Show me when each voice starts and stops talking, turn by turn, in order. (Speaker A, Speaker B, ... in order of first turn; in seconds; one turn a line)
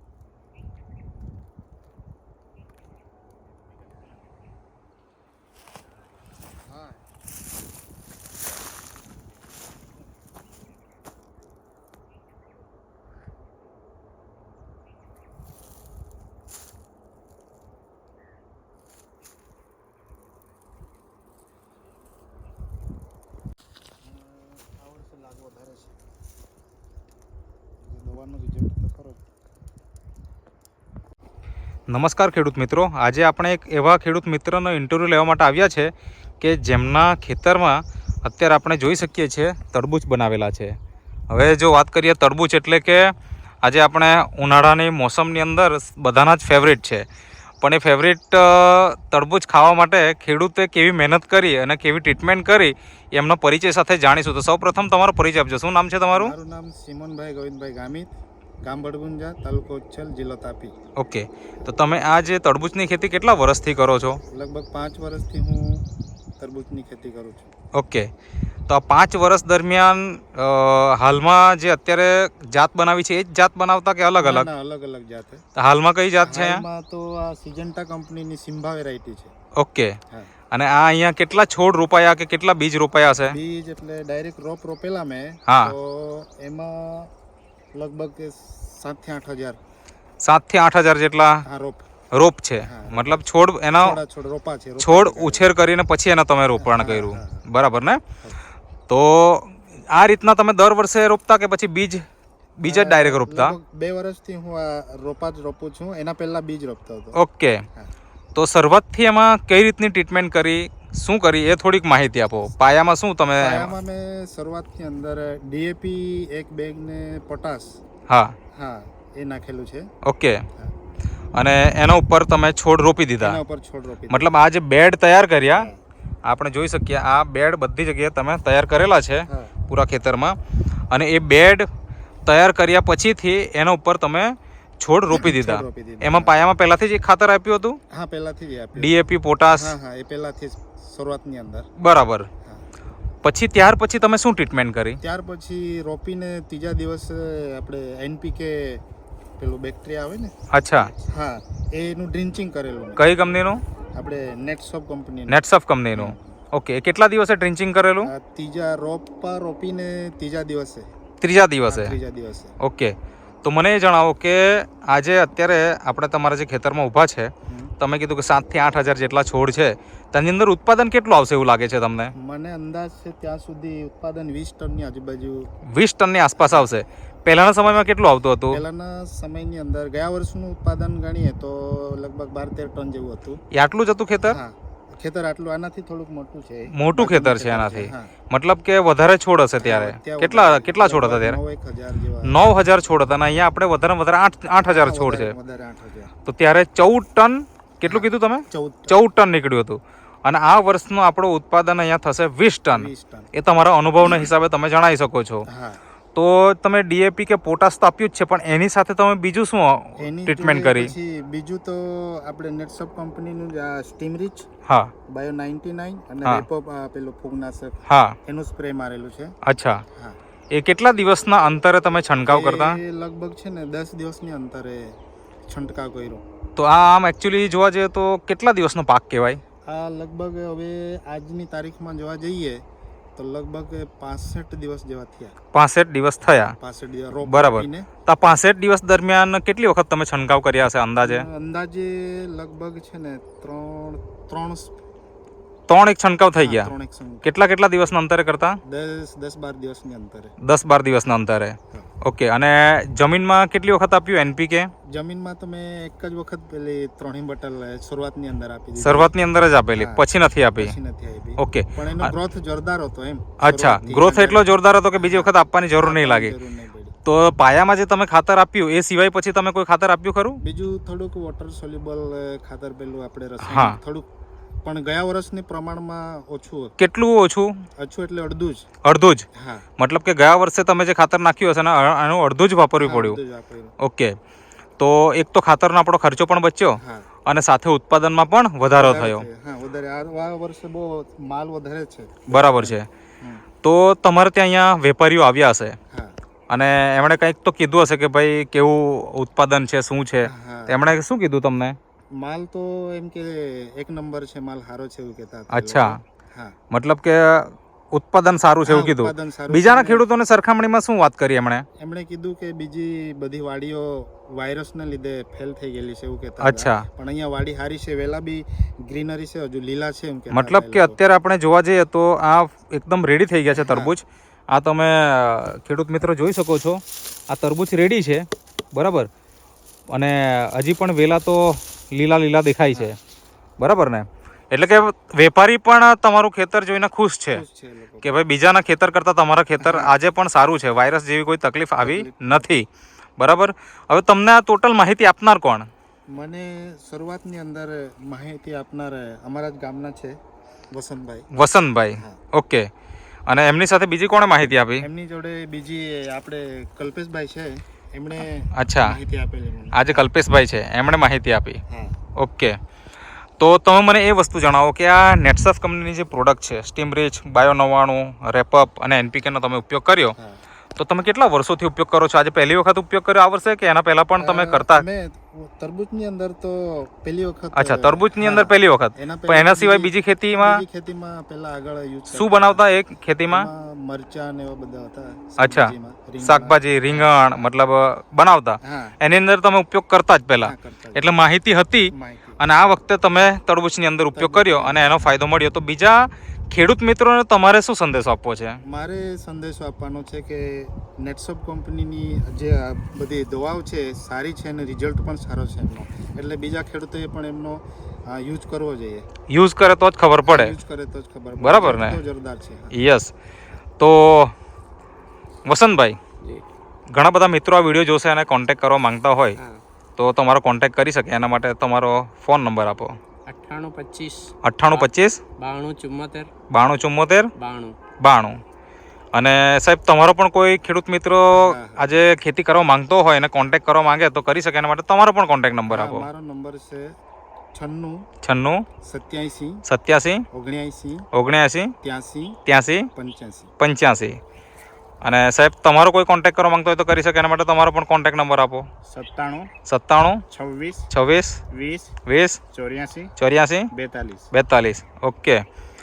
Speaker A: 6.7-7.0
Speaker A: 24.1-26.0
Speaker A: 27.8-29.2
Speaker B: 31.9-40.7
Speaker B: 41.3-47.0
Speaker B: 47.6-56.3
Speaker A: 56.1-58.1
Speaker A: 58.6-60.8
Speaker B: 61.0-64.2
Speaker A: 64.3-65.8
Speaker A: 66.4-67.5
Speaker B: 67.7-68.1
Speaker B: 68.7-74.5
Speaker A: 74.2-75.4
Speaker B: 75.5-76.6
Speaker A: 76.2-79.3
Speaker B: 79.5-80.0
Speaker B: 80.5-83.4
Speaker A: 83.3-87.1
Speaker B: 85.5-85.7
Speaker A: 87.7-89.6
Speaker B: 90.2-91.4
Speaker A: 91.4-91.9
Speaker B: 92.1-94.0
Speaker A: 92.6-93.2
Speaker A: 93.7-95.5
Speaker B: 94.8-98.0
Speaker A: 96.6-97.4
Speaker B: 98.9-102.0
Speaker B: 102.6-103.5
Speaker A: 102.6-107.2
Speaker B: 107.1-107.6
Speaker B: 108.3-113.7
Speaker A: 113.4-117.8
Speaker B: 118.1-118.3
Speaker A: 118.5-119.9
Speaker B: 120.0-120.4
Speaker B: 121.3-123.4
Speaker A: 123.2-124.3
Speaker B: 124.1-125.7
Speaker A: 125.5-125.8
Speaker B: 126.2-130.4
Speaker B: 130.9-131.7
Speaker B: 132.2-137.8
Speaker A: 135.1-136.3
Speaker A: 137.9-138.9
Speaker B: 138.8-139.8
Speaker A: 139.5-141.7
Speaker B: 141.8-142.3
Speaker B: 143.2-145.0
Speaker A: 145.0-148.8
Speaker A: 149.4-150.3
Speaker B: 150.5-150.9
Speaker A: 151.0-153.1
Speaker B: 153.0-153.6
Speaker A: 153.9-155.4
Speaker B: 155.3-158.1
Speaker A: 155.9-156.4
Speaker A: 158.0-160.9
Speaker B: 161.2-161.9
Speaker A: 161.7-162.5
Speaker B: 162.6-172.1
Speaker A: 172.2-175.5
Speaker B: 175.7-178.6
Speaker A: 176.4-176.7
Speaker A: 178.5-183.4
Speaker B: 183.5-184.4
Speaker A: 184.3-188.1
Speaker B: 186.7-191.4
Speaker A: 189.6-192.4
Speaker B: 192.2-195.3
Speaker A: 194.6-196.1
Speaker B: 196.2-205.4
Speaker A: 197.8-198.9
Speaker A: 202.7-203.3
Speaker A: 205.5-205.8
Speaker B: 206.1-210.9
Speaker A: 210.0-214.5
Speaker B: 214.7-214.9
Speaker A: 215.1-219.3
Speaker B: 217.9-218.2
Speaker B: 219.4-219.8
Speaker A: 219.9-220.2
Speaker B: 220.5-222.8
Speaker A: 222.3-225.0
Speaker A: 225.5-226.2
Speaker B: 226.6-229.4
Speaker A: 229.6-232.6
Speaker A: 233.2-235.3
Speaker B: 235.5-236.5
Speaker A: 236.2-237.9
Speaker B: 237.2-241.2
Speaker A: 241.0-244.7
Speaker B: 245.7-246.7
Speaker A: 246.4-247.3
Speaker B: 247.2-248.6
Speaker A: 248.6-250.3
Speaker B: 250.4-254.7
Speaker A: 254.8-259.1
Speaker B: 258.8-260.7
Speaker A: 259.7-266.9
Speaker B: 261.4-262.1
Speaker B: 263.4-266.3
Speaker B: 267.0-270.4
Speaker A: 270.4-274.1
Speaker B: 273.4-273.8
Speaker A: 274.6-276.7
Speaker B: 276.8-277.6
Speaker A: 277.8-278.7
Speaker B: 278.8-279.2
Speaker A: 279.3-279.6
Speaker B: 279.8-283.2
Speaker A: 282.8-283.7
Speaker B: 283.8-284.2
Speaker B: 284.8-289.2
Speaker A: 286.8-287.1
Speaker A: 288.8-293.4
Speaker B: 292.3-292.9
Speaker B: 293.6-295.8
Speaker A: 295.9-296.1
Speaker B: 296.5-301.8
Speaker A: 300.2-300.9
Speaker A: 302.1-306.6
Speaker B: 305.5-306.0
Speaker B: 306.7-311.6
Speaker A: 308.6-310.0
Speaker A: 311.8-321.0
Speaker B: 316.4-316.9
Speaker B: 320.3-329.1
Speaker A: 323.5-323.9
Speaker B: 329.9-333.0
Speaker B: 333.6-337.4
Speaker A: 337.3-338.2
Speaker B: 338.0-342.6
Speaker A: 339.6-339.9
Speaker A: 341.8-342.5
Speaker B: 343.2-345.7
Speaker A: 346.1-350.2
Speaker A: 350.7-351.3
Speaker B: 351.3-352.7
Speaker B: 353.3-354.9
Speaker A: 354.8-360.1
Speaker B: 358.5-358.9
Speaker B: 359.7-361.6
Speaker A: 361.7-362.0
Speaker B: 362.1-362.6
Speaker B: 363.4-370.1
Speaker A: 370.1-370.4
Speaker B: 370.8-374.8
Speaker A: 374.2-382.6
Speaker B: 377.5-380.6
Speaker B: 382.1-383.5
Speaker A: 383.3-387.5
Speaker B: 385.4-398.6
Speaker A: 388.6-389.0
Speaker A: 390.4-391.1
Speaker A: 391.9-392.4
Speaker A: 394.1-395.1
Speaker A: 398.6-409.0
Speaker B: 409.3-410.5
Speaker A: 410.2-412.8
Speaker B: 411.4-412.0
Speaker B: 412.7-413.1
Speaker B: 413.8-414.3
Speaker B: 415.4-416.0
Speaker B: 416.9-419.4
Speaker B: 420.0-422.9
Speaker C: 423.3-426.3
Speaker B: 424.4-425.2
Speaker B: 426.5-427.3
Speaker C: 427.4-427.8
Speaker B: 428.0-428.4
Speaker B: 429.1-436.1
Speaker A: 431.4-431.8
Speaker A: 435.7-436.9
Speaker A: 437.5-438.0
Speaker B: 438.2-438.6
Speaker A: 438.8-439.6
Speaker B: 439.6-440.2
Speaker A: 440.3-441.1
Speaker B: 441.1-441.7
Speaker A: 441.8-442.4
Speaker B: 442.4-442.9
Speaker A: 442.9-443.5
Speaker B: 443.6-444.2
Speaker B: 445.0-448.6
Speaker A: 448.9-449.5
Speaker B: 449.6-450.2
Speaker A: 450.3-450.9
Speaker B: 450.9-451.4
Speaker A: 451.5-452.0
Speaker B: 452.1-452.4
Speaker A: 452.5-453.1
Speaker B: 453.2-453.7
Speaker A: 453.7-454.3
Speaker B: 454.3-455.4